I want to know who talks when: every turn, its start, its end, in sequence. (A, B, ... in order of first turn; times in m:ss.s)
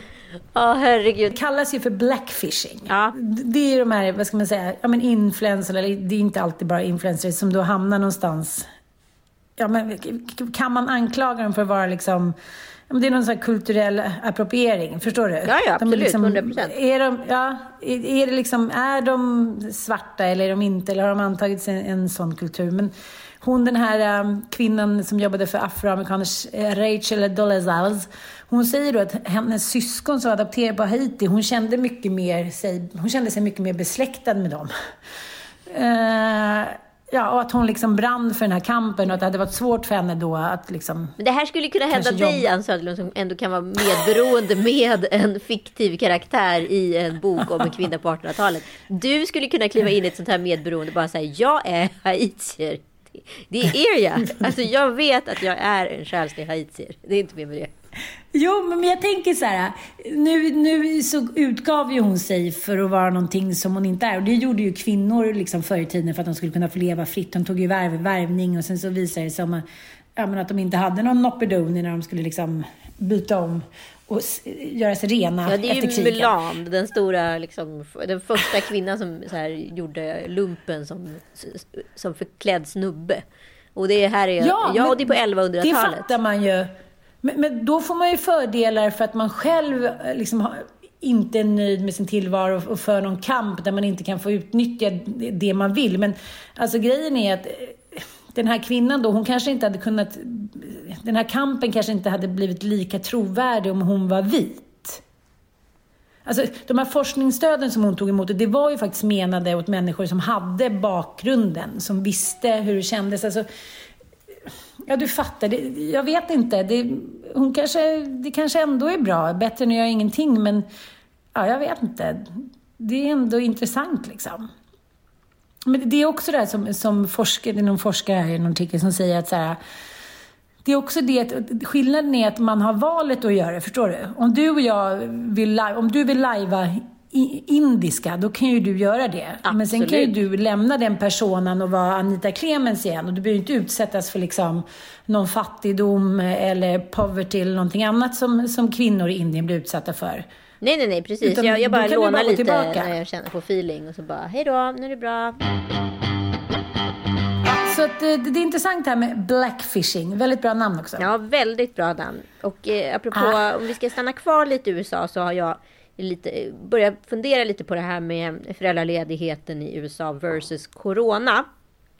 0:00.5-0:01.3 A
0:01.3-0:08.7 B
0:02.9-0:03.1 A
0:09.6-0:12.3 B
0:12.9-0:34.7 B
0:15.4-0:16.7 A
0:35.6-0:41.2 B
0:41.2-0:57.7 A
0:41.9-0:42.4 B
0:58.3-1:09.6 B
1:10.2-1:16.3 B
1:15.4-1:23.2 A
1:23.8-1:26.1 A
1:24.4-1:26.7 B
1:27.2-1:45.0 B
1:46.2-1:53.4 B
1:54.8-2:00.6 B
2:01.3-2:04.5 B
2:05.6-2:09.6 B
2:10.6-2:30.2 B
2:19.4-2:20.1 A
2:30.6-2:35.4 A
2:31.2-2:32.9 B
2:37.4-2:41.1 B
2:41.0-2:51.5 A
2:43.1-2:43.4 B